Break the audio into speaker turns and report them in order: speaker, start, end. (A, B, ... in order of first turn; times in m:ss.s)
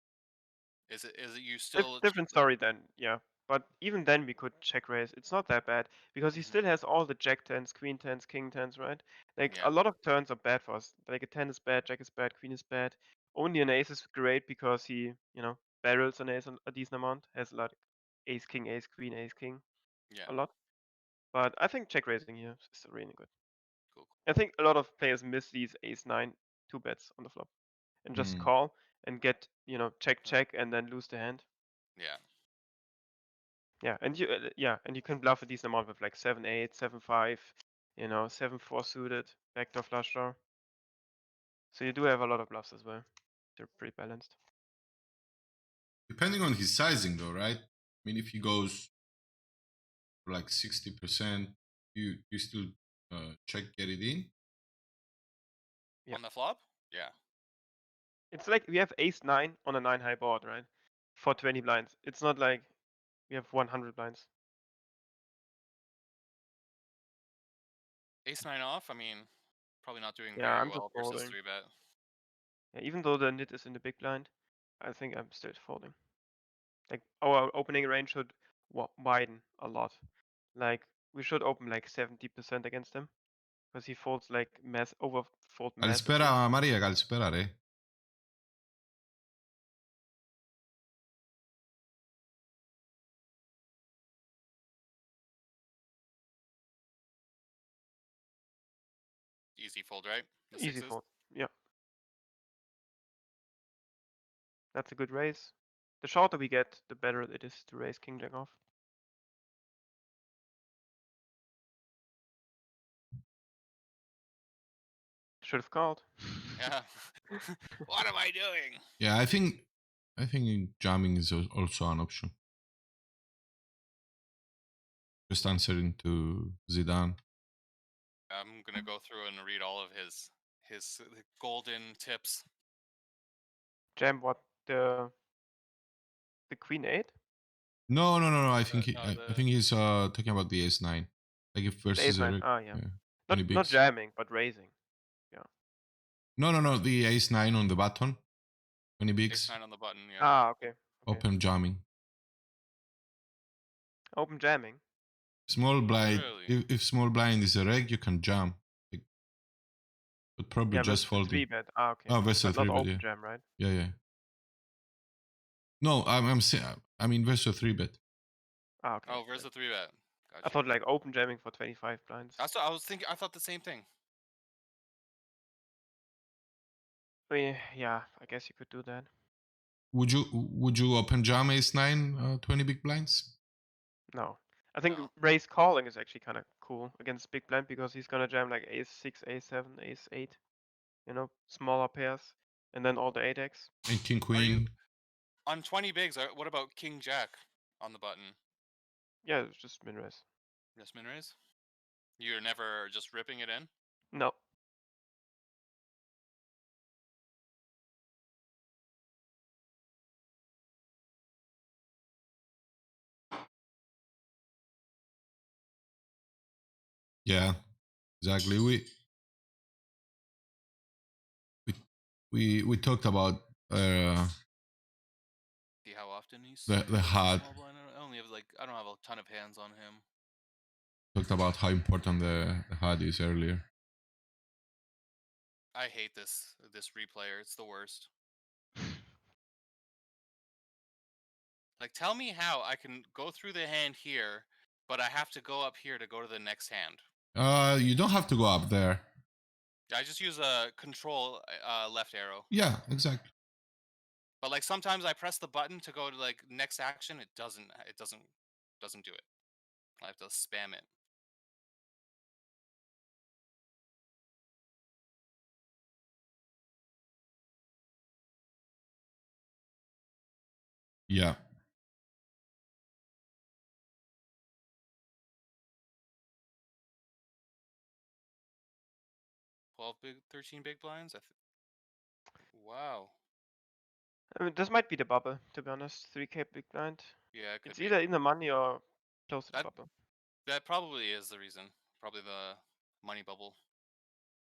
0:00.9-0:02.3 A
0:01.7-0:19.6 B
0:06.3-0:06.6 A
0:09.5-0:09.7 A
0:20.2-0:20.5 B
0:21.3-0:23.3 B
0:24.2-0:27.5 B
0:28.0-0:31.4 B
0:28.1-0:28.5 C
0:32.0-0:32.2 A
0:33.8-0:40.4 B
0:41.7-0:43.0 B
0:43.6-0:44.3 B
0:46.1-0:48.9 C
0:50.2-0:54.3 C
0:56.1-0:57.1 A
0:58.3-1:02.7 B
1:03.3-1:04.3 B
1:08.2-1:09.3 A
1:09.8-1:11.7 A
1:10.3-1:11.4 B
1:12.7-1:14.3 B
1:14.8-1:15.9 B
1:16.9-1:20.0 B
1:20.5-1:23.1 B
1:23.7-1:26.4 B
1:25.8-1:27.6 C
1:39.6-1:41.0 A
1:40.6-1:41.5 B
1:44.7-1:48.5 B
1:55.4-1:56.6 B
1:56.6-1:58.8 A
1:59.0-2:02.3 C
2:05.3-2:07.2 C
2:08.3-2:12.4 A
2:14.0-2:15.1 B
2:16.5-2:17.1 B
2:17.9-2:23.8 C
2:18.7-2:19.5 A
2:21.9-2:24.7 B
2:26.4-2:28.2 C
2:29.0-2:29.5 C
2:29.3-2:30.4 A
2:30.2-2:31.2 B
2:31.0-2:31.8 C
2:34.1-2:34.8 B
2:35.5-2:39.0 C
2:36.0-2:36.6 A
2:40.4-2:41.5 C
2:40.7-2:43.4 B
2:42.0-2:43.0 C
2:43.6-2:43.9 C
2:45.8-2:48.0 C
2:48.8-2:49.5 B
2:49.0-2:50.6 A
2:50.4-2:52.4 B
2:52.4-2:53.8 A
2:57.3-2:59.1 B
2:59.9-3:03.3 C
3:04.1-3:10.4 B
3:04.8-3:05.1 A
3:11.0-3:13.7 B
3:13.9-3:14.7 C
3:14.3-3:14.7 A
3:15.4-3:18.4 A
3:19.2-3:20.2 B
3:20.8-3:21.3 A
3:22.2-3:23.7 A
3:37.2-3:37.6 C
3:38.2-3:38.9 C
3:42.3-3:44.3 C
3:45.8-3:50.0 A
3:46.7-3:47.5 C
3:51.1-3:53.6 C
3:55.7-3:58.1 A
4:01.8-4:07.0 A
4:07.3-4:09.1 C
4:09.9-4:12.5 A
4:12.5-4:13.3 C
4:14.4-4:19.2 A
4:20.0-4:20.9 A
4:31.1-4:31.4 C
4:39.8-4:41.3 A
4:42.5-4:43.1 A
4:44.3-4:49.9 B
4:47.3-4:48.0 A
4:50.4-4:53.6 A